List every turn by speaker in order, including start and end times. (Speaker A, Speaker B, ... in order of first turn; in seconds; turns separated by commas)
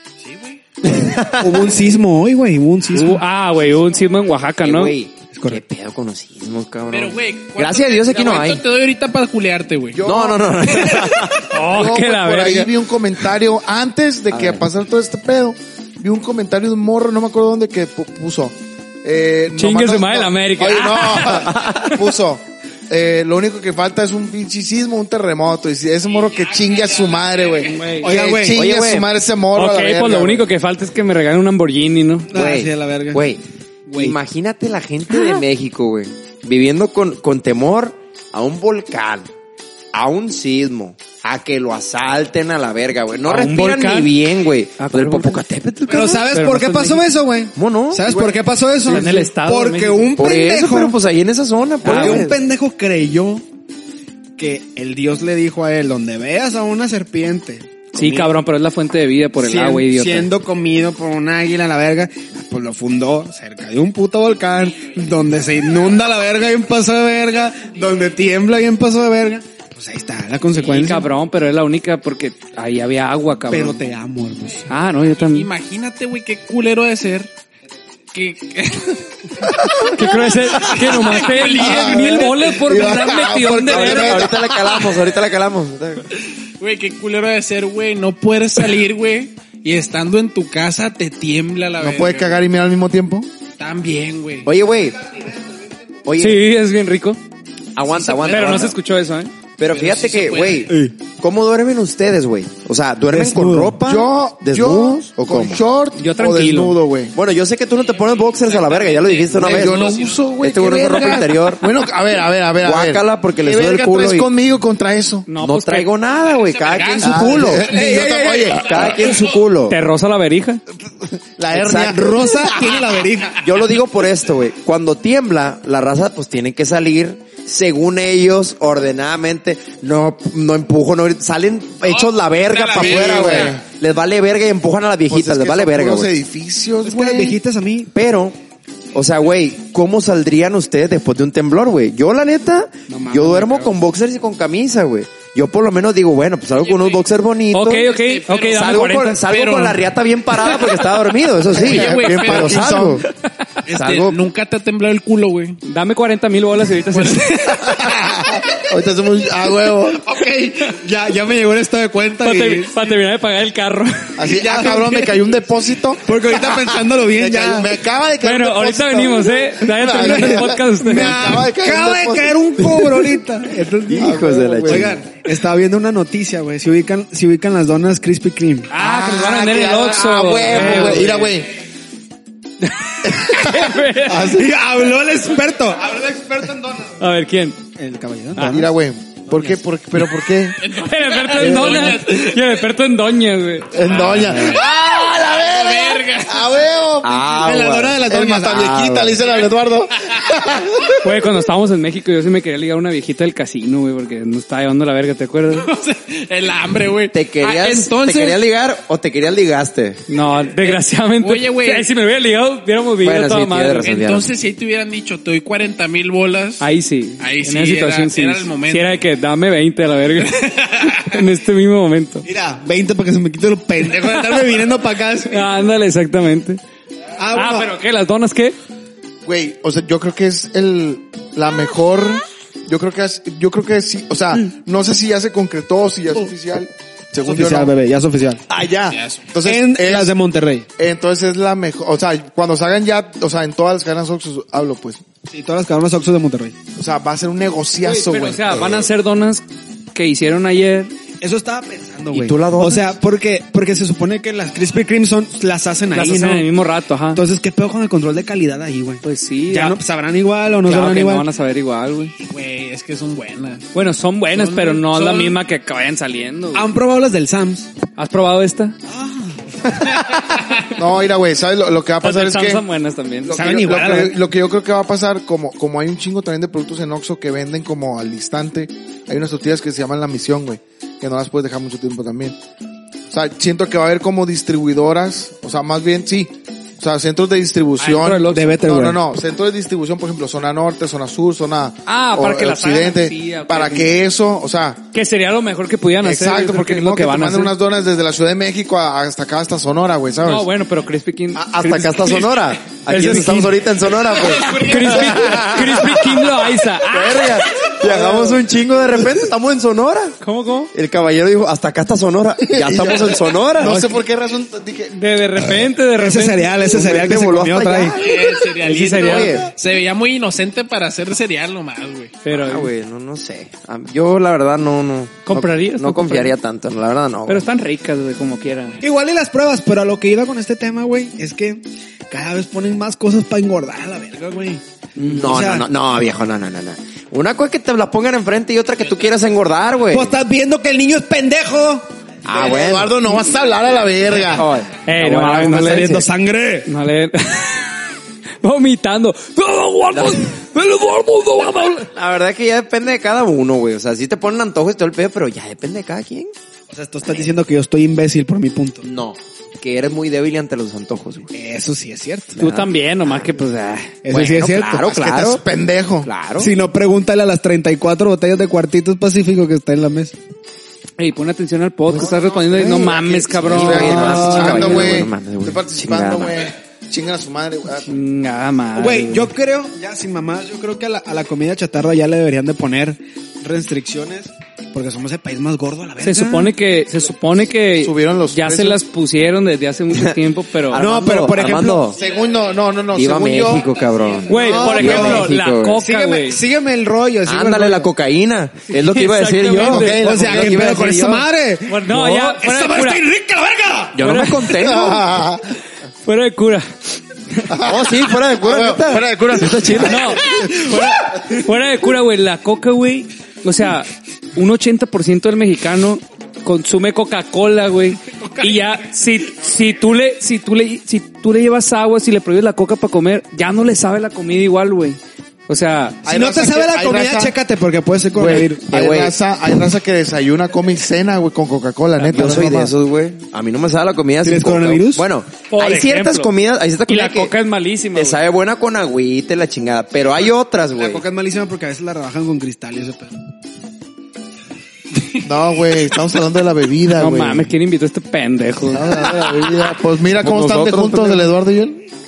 Speaker A: 0.2-0.6, Speaker B: 0.8-1.7, Speaker C: 1.3-3.2, Speaker D: 2.9-4.9, Speaker B: 4.6-8.6, Speaker C: 5.3-5.6, Speaker A: 6.9-10.0, Speaker E: 9.9-30.5, Speaker B: 10.0-11.5, Speaker D: 11.3-12.7, Speaker B: 14.3-14.6, Speaker D: 19.5-21.9, Speaker A: 26.0-28.0, Speaker D: 27.6-28.1, Speaker C: 28.0-28.7, Speaker B: 28.5-29.1, Speaker D: 29.5-32.3, Speaker C: 32.3-33.2, Speaker B: 32.3-39.3, Speaker B: 39.9-46.2, Speaker D: 43.3-44.1, Speaker D: 44.8-47.0, Speaker C: 45.9-51.0, Speaker B: 47.5-48.4, Speaker D: 48.9-50.1, Speaker B: 50.1-52.4, Speaker D: 51.8-52.3, Speaker C: 51.8-53.4, Speaker C: 54.4-58.4, Speaker D: 57.9-60.3, Speaker C: 59.4-71.1, Speaker D: 70.6-73.8, Speaker C: 73.5-74.7, Speaker D: 74.7-75.5, Speaker A: 75.2-77.3, Speaker A: 78.1-79.5, Speaker E: 79.6-80.0, Speaker D: 79.9-84.3, Speaker A: 80.6-82.2, Speaker E: 81.3-85.0, Speaker B: 83.7-86.1, Speaker A: 86.6-92.4, Speaker E: 91.8-93.3, Speaker A: 93.6-94.5, Speaker B: 94.4-95.0, Speaker B: 96.0-96.4, Speaker D: 96.2-97.2, Speaker B: 97.7-98.8, Speaker A: 97.9-98.7, Speaker D: 98.2-99.3, Speaker B: 99.6-105.6, Speaker A: 99.7-100.7, Speaker C: 100.7-100.9, Speaker C: 103.1-103.8, Speaker E: 103.8-107.1, Speaker D: 106.0-106.8, Speaker B: 107.1-111.7, Speaker A: 107.9-110.4, Speaker E: 109.3-115.3, Speaker B: 112.6-114.3, Speaker D: 115.3-115.9, Speaker B: 115.4-117.7, Speaker A: 116.3-119.4, Speaker E: 117.0-118.9, Speaker C: 117.7-118.8, Speaker B: 118.6-119.8, Speaker D: 119.7-120.6, Speaker E: 120.9-122.7, Speaker B: 121.5-122.0, Speaker C: 121.6-123.4, Speaker B: 123.4-136.1, Speaker A: 131.8-133.6, Speaker E: 132.7-133.6, Speaker E: 135.1-137.4, Speaker C: 136.8-137.9, Speaker B: 137.9-138.3, Speaker B: 138.9-147.9, Speaker C: 142.9-143.7, Speaker A: 146.6-147.0, Speaker D: 147.5-149.3, Speaker A: 147.8-149.8, Speaker B: 148.5-153.1, Speaker A: 150.4-150.7, Speaker E: 151.5-153.1, Speaker A: 151.5-152.7, Speaker A: 153.7-155.6, Speaker B: 153.7-154.2, Speaker D: 155.6-157.8, Speaker A: 157.1-157.3, Speaker E: 157.6-160.7, Speaker C: 160.6-162.8, Speaker D: 162.2-164.2, Speaker E: 164.2-173.2, Speaker C: 164.3-165.2, Speaker C: 166.1-167.7, Speaker D: 168.2-171.3, Speaker C: 169.9-178.7, Speaker E: 173.9-174.9, Speaker B: 173.9-175.0, Speaker D: 178.7-181.2, Speaker E: 178.8-181.5, Speaker C: 180.5-181.3, Speaker D: 182.6-184.4, Speaker E: 183.1-184.5, Speaker C: 184.2-187.0, Speaker D: 187.0-187.6, Speaker C: 187.8-188.7, Speaker D: 188.3-188.7, Speaker E: 188.4-190.6, Speaker A: 190.6-192.4, Speaker D: 190.7-193.8, Speaker E: 191.4-192.0, Speaker E: 193.7-197.2, Speaker A: 193.8-196.6, Speaker B: 197.0-198.0, Speaker C: 197.3-199.2, Speaker E: 198.0-201.1, Speaker D: 201.0-205.7, Speaker A: 205.6-208.4, Speaker B: 207.1-210.0, Speaker D: 210.1-213.9, Speaker A: 210.6-211.9, Speaker B: 213.0-214.3, Speaker A: 213.8-216.6, Speaker D: 216.6-222.2, Speaker A: 217.2-218.9, Speaker A: 220.4-221.1, Speaker C: 222.2-225.5, Speaker D: 225.3-226.6, Speaker C: 227.2-227.7, Speaker D: 227.3-228.6, Speaker E: 229.2-237.7, Speaker C: 237.2-238.4, Speaker E: 238.5-240.1, Speaker A: 238.9-239.2, Speaker C: 239.4-240.7, Speaker E: 240.8-245.0, Speaker C: 245.3-246.6, Speaker E: 246.8-248.9, Speaker D: 247.8-250.9, Speaker C: 251.2-256.5, Speaker B: 252.1-252.9, Speaker D: 255.9-257.2, Speaker C: 257.1-261.3, Speaker D: 259.0-259.8, Speaker D: 260.6-262.1, Speaker A: 262.2-263.6, Speaker D: 263.7-266.7, Speaker A: 264.3-265.4, Speaker C: 266.5-267.7, Speaker D: 268.0-268.8, Speaker C: 268.9-269.4, Speaker E: 270.7-272.6, Speaker D: 272.0-273.4, Speaker E: 273.2-282.4, Speaker C: 273.3-274.2, Speaker E: 283.1-294.8, Speaker D: 287.8-288.7, Speaker C: 288.3-289.0, Speaker D: 291.9-293.9, Speaker D: 294.9-297.5, Speaker E: 296.0-300.5, Speaker D: 300.2-303.6, Speaker E: 301.4-302.1, Speaker B: 301.4-306.2, Speaker A: 304.3-304.9, Speaker D: 304.4-307.4, Speaker E: 304.7-305.8, Speaker B: 306.9-310.1, Speaker E: 307.2-308.4, Speaker D: 310.2-310.7, Speaker B: 310.7-313.8, Speaker E: 312.5-314.9, Speaker D: 313.6-313.9, Speaker D: 314.9-316.7, Speaker C: 315.9-318.0, Speaker B: 316.7-319.5, Speaker A: 318.0-322.2, Speaker D: 318.6-319.4, Speaker D: 322.2-322.7, Speaker B: 322.3-327.4, Speaker D: 325.2-326.3, Speaker D: 327.3-328.8, Speaker C: 328.8-334.6, Speaker D: 335.0-335.3, Speaker B: 335.0-340.1, Speaker C: 335.1-335.7, Speaker C: 339.9-341.9, Speaker B: 342.2-343.0, Speaker E: 342.3-344.5, Speaker B: 344.2-346.0, Speaker D: 344.8-346.1, Speaker C: 345.0-346.7, Speaker D: 346.6-347.8, Speaker D: 348.4-351.9, Speaker B: 349.9-350.2, Speaker B: 351.9-356.3, Speaker C: 356.7-358.8, Speaker B: 358.8-361.3, Speaker C: 361.3-362.4, Speaker D: 362.4-364.0, Speaker B: 362.4-362.7, Speaker C: 364.0-364.9, Speaker B: 364.1-365.4, Speaker E: 364.8-366.1, Speaker B: 366.0-366.5, Speaker C: 366.4-370.1, Speaker D: 371.0-374.9, Speaker B: 371.9-376.4, Speaker E: 373.5-377.9, Speaker C: 373.9-374.9, Speaker D: 377.9-379.3, Speaker C: 378.8-386.5, Speaker D: 386.0-390.9, Speaker E: 387.8-388.8, Speaker B: 389.9-392.0, Speaker C: 390.7-391.9, Speaker E: 391.9-393.7, Speaker A: 392.0-392.2, Speaker B: 392.9-395.8, Speaker A: 393.8-394.6, Speaker D: 394.3-396.4, Speaker C: 394.3-397.9, Speaker B: 397.2-401.3, Speaker D: 398.7-400.0, Speaker E: 399.5-400.8, Speaker C: 400.0-404.0, Speaker D: 401.7-403.0, Speaker B: 403.9-405.1, Speaker D: 404.0-404.6, Speaker E: 404.6-405.5, Speaker D: 406.0-406.7, Speaker E: 407.5-410.5, Speaker B: 407.6-410.1, Speaker D: 409.8-426.0, Speaker C: 410.4-410.9, Speaker E: 426.0-427.3, Speaker C: 426.0-428.7, Speaker E: 428.1-432.7, Speaker B: 428.7-429.1, Speaker D: 432.0-432.4, Speaker B: 432.1-437.3, Speaker C: 434.2-435.0, Speaker D: 435.5-436.3, Speaker D: 436.9-438.2, Speaker B: 437.9-441.0, Speaker C: 440.8-443.2, Speaker E: 445.2-447.5, Speaker D: 447.0-449.0, Speaker E: 448.7-451.8, Speaker B: 450.2-451.3